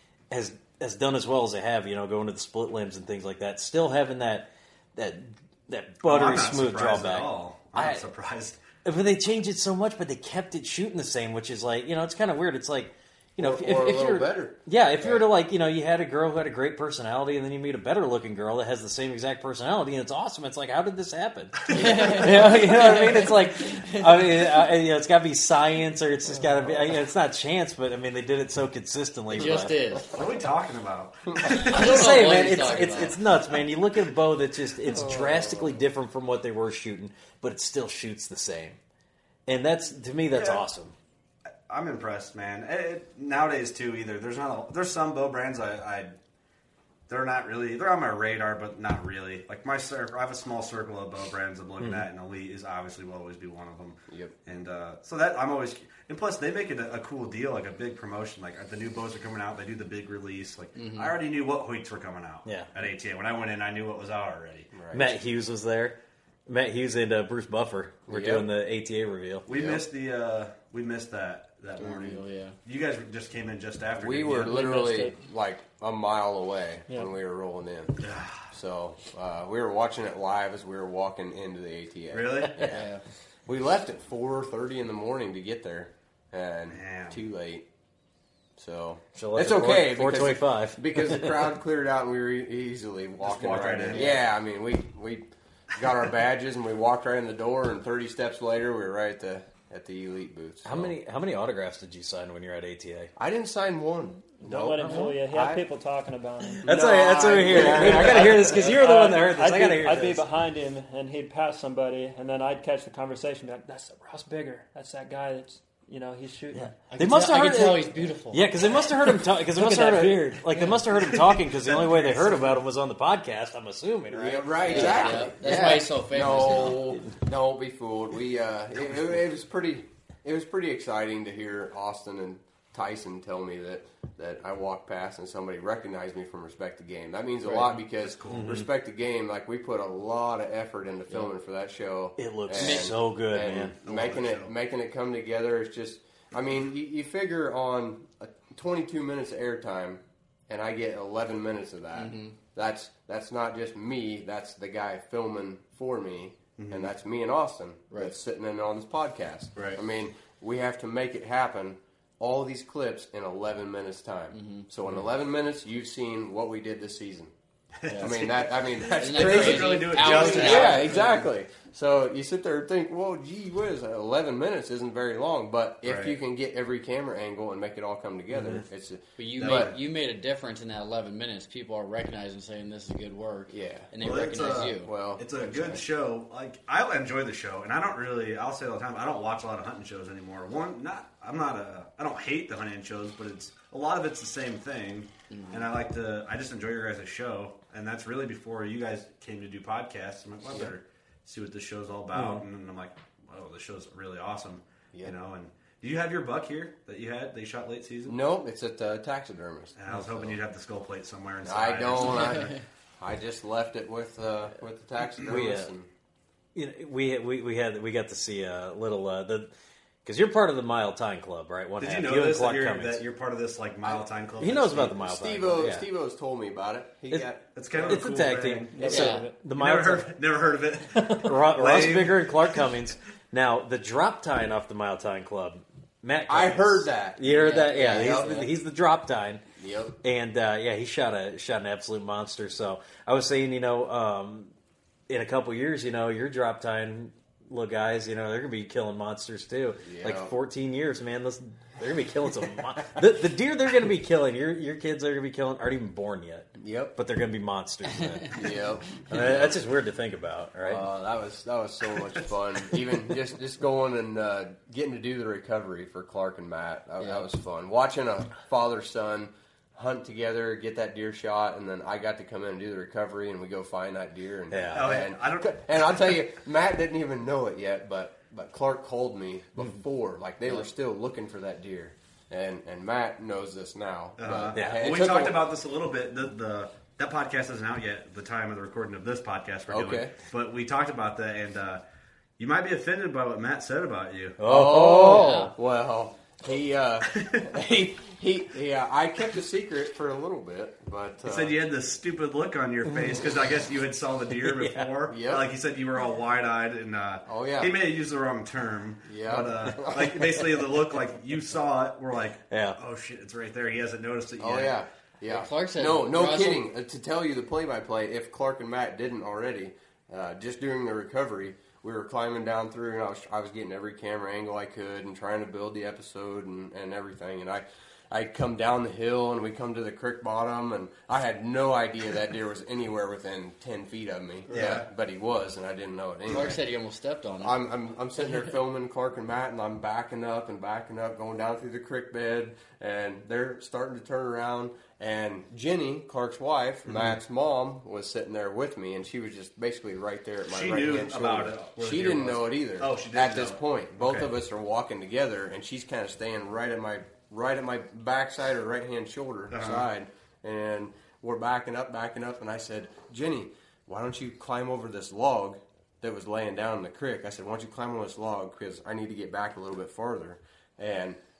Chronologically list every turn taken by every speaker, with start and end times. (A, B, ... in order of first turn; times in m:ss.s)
0:00.3-0:08.0 A
0:06.0-0:08.6 B
0:08.8-0:29.8 A
0:13.4-0:15.2 C
0:21.7-0:24.6 D
0:29.3-0:30.1 D
0:30.1-0:32.1 B
0:31.6-0:33.2 D
0:31.7-0:38.8 A
0:34.9-0:35.8 C
0:39.5-0:40.9 A
0:40.3-0:40.6 B
0:41.7-0:46.1 B
0:47.1-1:04.7 B
0:51.8-0:52.0 A
0:54.1-0:54.3 C
1:00.7-1:01.2 D
1:04.7-1:05.2 C
1:04.9-1:09.4 A
1:08.1-1:08.5 C
1:09.5-1:14.6 B
1:09.5-1:09.8 C
1:11.8-1:12.6 D
1:14.0-1:22.9 C
1:14.4-1:15.2 E
1:18.0-1:18.5 B
1:22.1-1:22.6 B
1:22.6-1:23.0 D
1:23.5-1:27.6 C
1:26.7-1:27.2 B
1:28.6-1:40.9 C
1:29.1-1:31.5 A
1:33.2-1:34.2 B
1:40.6-1:43.1 A
1:43.2-1:45.6 C
1:44.4-1:46.7 E
1:46.6-1:50.2 A
1:46.6-1:48.7 C
1:47.3-1:56.7 E
1:56.5-2:05.3 A
1:56.9-1:58.8 D
1:59.5-2:00.5 E
2:01.3-2:02.4 B
2:04.1-2:47.3 C
2:04.6-2:06.9 D
2:17.4-2:17.8 D
2:17.9-2:18.6 B
2:18.3-2:18.7 A
2:22.2-2:23.7 A
2:23.8-2:24.5 B
2:31.9-2:32.3 D
2:36.6-2:36.9 B
2:44.3-2:45.0 D
2:47.8-2:48.3 B
2:47.8-2:48.3 D
2:48.0-2:59.8 C
2:48.8-2:51.0 B
2:48.9-2:51.3 D
2:55.8-2:56.2 B
2:59.2-3:05.0 D
2:59.4-2:59.8 B
3:03.5-3:05.4 C
3:04.0-3:28.2 B
3:05.5-3:05.8 D
3:15.3-3:15.7 D
3:22.1-3:22.4 A
3:28.1-3:30.3 C
3:29.8-3:32.5 B
3:31.4-3:35.9 C
3:35.2-3:35.7 A
3:36.5-3:39.5 A
3:40.0-3:43.0 A
3:41.8-3:44.9 B
3:44.4-3:45.8 A
3:44.7-3:48.0 C
3:47.5-3:48.9 B
3:47.8-3:50.1 A
3:48.7-3:49.4 E
3:48.8-3:49.3 D
3:49.5-3:52.3 B
3:51.2-3:59.4 A
3:56.3-3:58.5 C
3:57.2-3:58.4 D
3:59.6-4:00.0 C
4:00.0-4:04.5 A
4:05.1-4:18.4 A
4:09.8-4:10.3 C
4:16.6-4:17.0 C
4:18.3-4:19.5 C
4:19.0-4:20.8 A
4:20.7-4:45.5 C
4:27.0-4:27.2 D
4:34.5-4:34.9 A
4:34.7-4:35.6 B
4:44.2-4:51.8 B
4:44.6-4:44.8 A
4:49.7-4:50.2 C
4:52.4-4:54.4 B
4:54.4-4:55.5 A
4:54.4-5:01.6 C
4:55.0-4:55.5 D
4:57.1-4:57.5 B
5:01.2-5:14.8 B
5:04.4-5:04.9 A
5:05.1-5:05.4 C
5:07.2-5:07.7 C
5:09.0-5:10.7 C
5:12.5-5:12.8 A
5:14.4-5:36.6 C
5:15.2-5:16.6 D
5:34.5-5:34.9 B
5:36.3-5:37.6 D
5:37.4-6:11.2 C
5:50.5-5:54.3 B
5:59.5-5:59.9 B